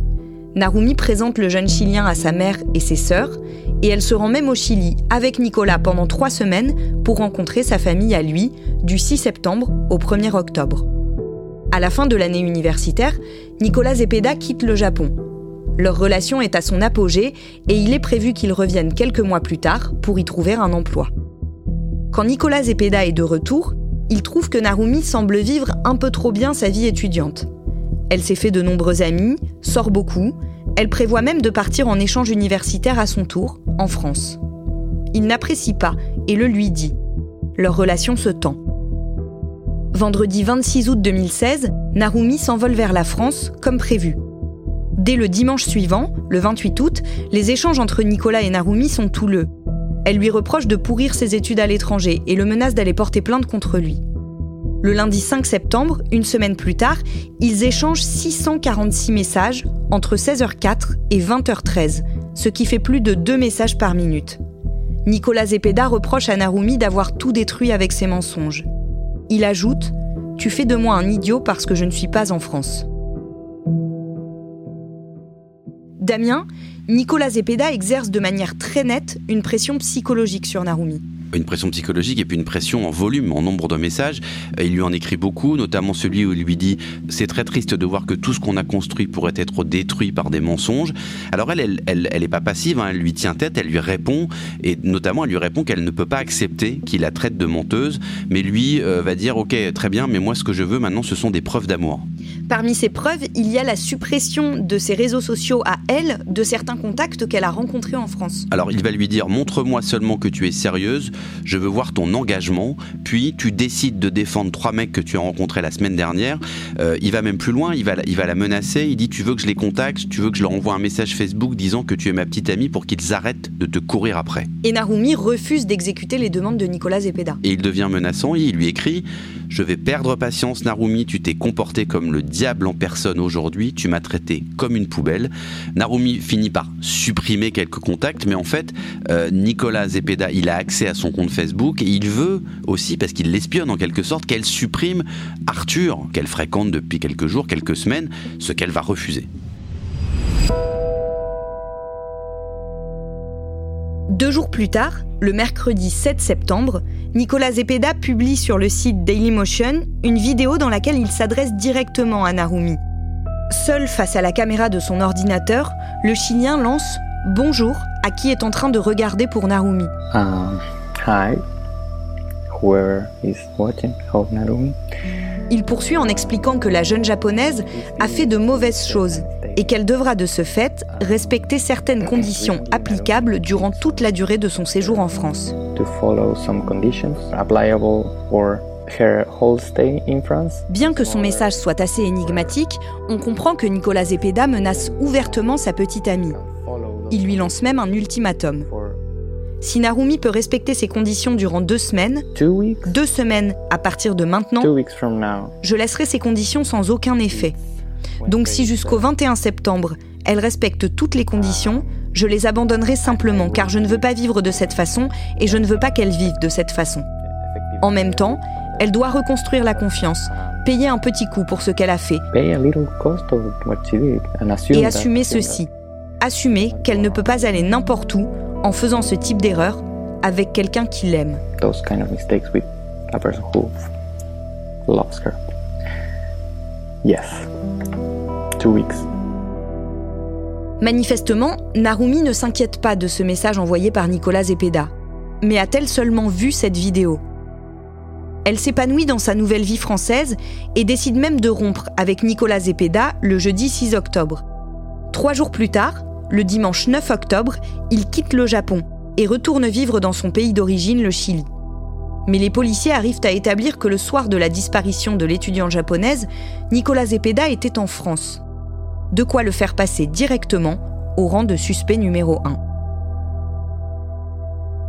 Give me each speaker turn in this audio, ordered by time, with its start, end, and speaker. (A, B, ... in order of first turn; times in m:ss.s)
0:00.6-0:10.9 A
0:11.7-0:15.2 A
0:15.8-0:21.1 A
0:22.1-0:27.5 A
0:28.1-0:34.4 A
0:35.1-0:37.0 A
0:37.6-0:38.6 A
0:39.9-0:44.2 A
0:45.0-0:49.5 A
0:50.0-0:54.0 A
0:54.8-1:04.4 A
1:05.1-1:08.7 A
1:09.3-1:12.9 A
1:16.0-1:21.0 A
1:21.3-1:42.1 B
1:42.5-1:48.5 A
1:48.5-2:04.5 B
2:04.6-2:07.4 A
2:07.4-2:29.3 B
2:34.1-2:42.8 A
2:43.5-2:49.9 A
2:50.1-2:51.4 C
2:52.5-2:54.8 C
2:55.5-3:05.6 A
2:56.0-2:56.5 C
2:57.7-2:59.8 C
3:00.9-3:01.4 C
3:02.0-3:05.1 C
3:05.6-3:12.5 C
3:10.7-3:16.4 A
3:14.6-3:15.6 C
3:16.2-3:17.9 C
3:17.1-3:18.7 A
3:18.7-3:19.0 C
3:19.6-3:22.3 A
3:22.4-3:23.0 C
3:22.9-3:24.7 A
3:24.6-3:25.6 C
3:25.6-3:27.6 A
3:28.2-3:29.1 C
3:28.3-3:37.1 A
3:31.3-3:31.8 C
3:33.0-3:36.1 C
3:37.4-3:39.0 C
3:37.8-3:42.2 A
3:39.7-3:40.7 C
3:42.3-3:45.6 C
3:44.7-3:45.7 A
3:46.2-3:51.4 A
3:46.6-3:47.6 C
3:51.6-3:53.8 C
3:54.9-3:55.4 C
3:57.0-3:57.5 C
3:58.6-3:59.0 C
4:00.8-4:07.2 A
4:08.4-4:14.4 A
4:15.1-4:21.4 A
4:22.3-4:28.4 A
4:29.1-4:32.6 A